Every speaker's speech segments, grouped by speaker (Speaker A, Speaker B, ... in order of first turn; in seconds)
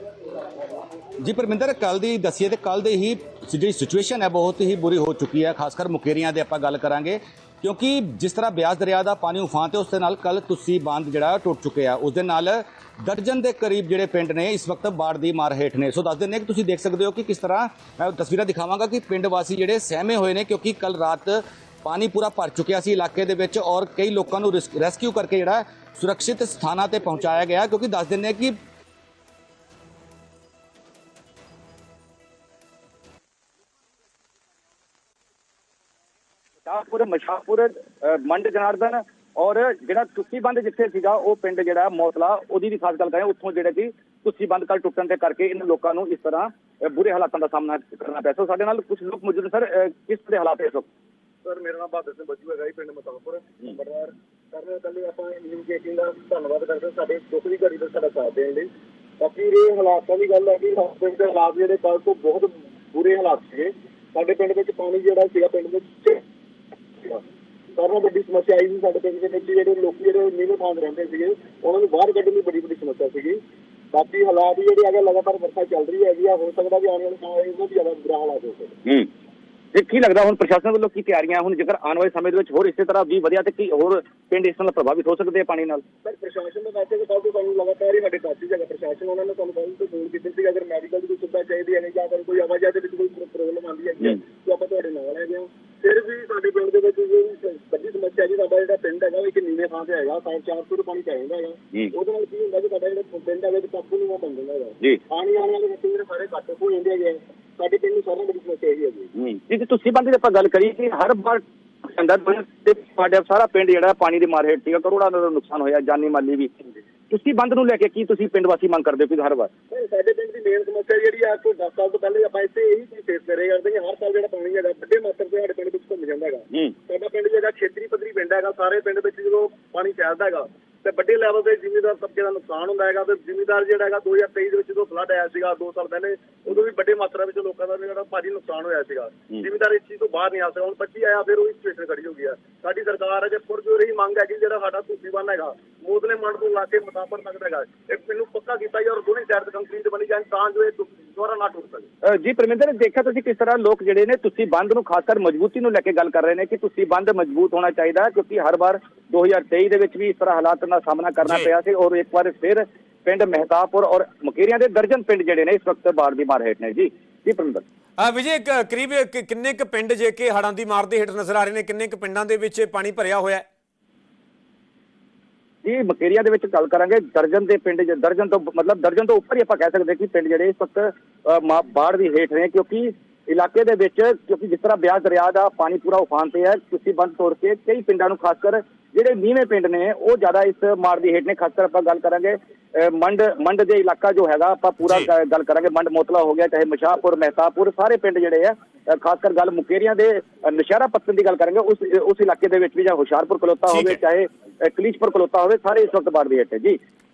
Speaker A: 1.2-28.6
Speaker B: 36.6-50.9, 79.7-85.8, 109.2-119.5, 152.0-167.6, 175.6-206.8
Speaker C: 51.5-58.7, 59.2-66.2, 67.0-67.2, 67.8-73.4, 73.9-78.8, 86.0-109.1, 119.7-151.9
Speaker D: 161.2-161.5, 168.0-173.4, 194.8-195.1, 203.7-204.0